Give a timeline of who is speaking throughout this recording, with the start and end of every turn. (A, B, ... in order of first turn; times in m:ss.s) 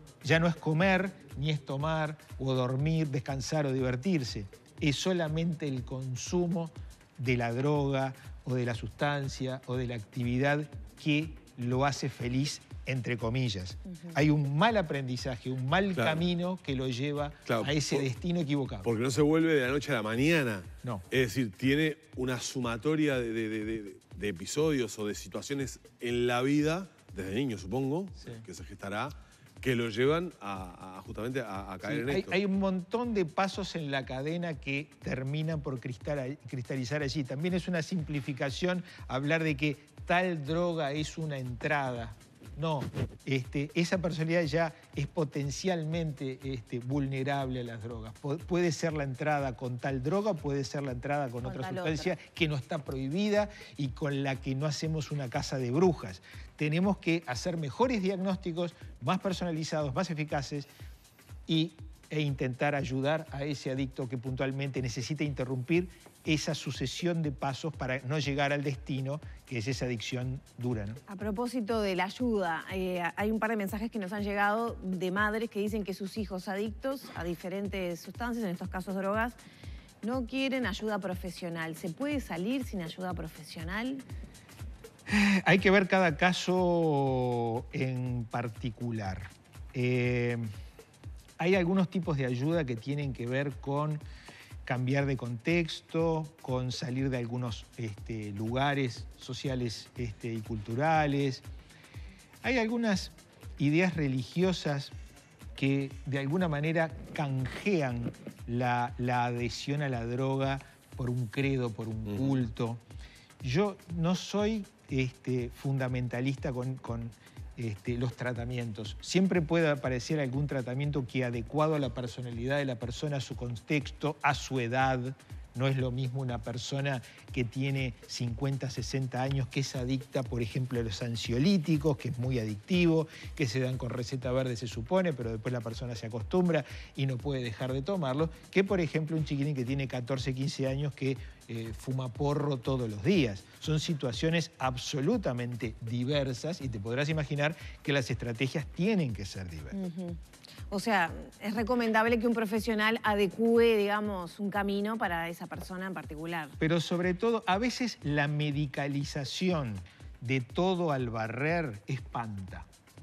0:00.2-0:18.9 A
0:16.0-0:16.2 B
0:17.5-0:18.0 B
0:18.8-0:32.4 B
0:31.8-1:00.7 A
0:51.4-0:52.1 C
1:01.5-1:11.0 A
1:11.1-1:19.4 C
1:20.0-1:24.0 C
1:25.1-1:30.4 A
1:31.4-1:34.0 A
1:34.6-1:41.4 A
1:42.4-1:44.9 A
1:45.6-1:52.8 A
1:52.1-1:52.4 B
1:53.4-2:29.8 A
2:29.7-2:36.6 C
2:36.6-2:42.7 A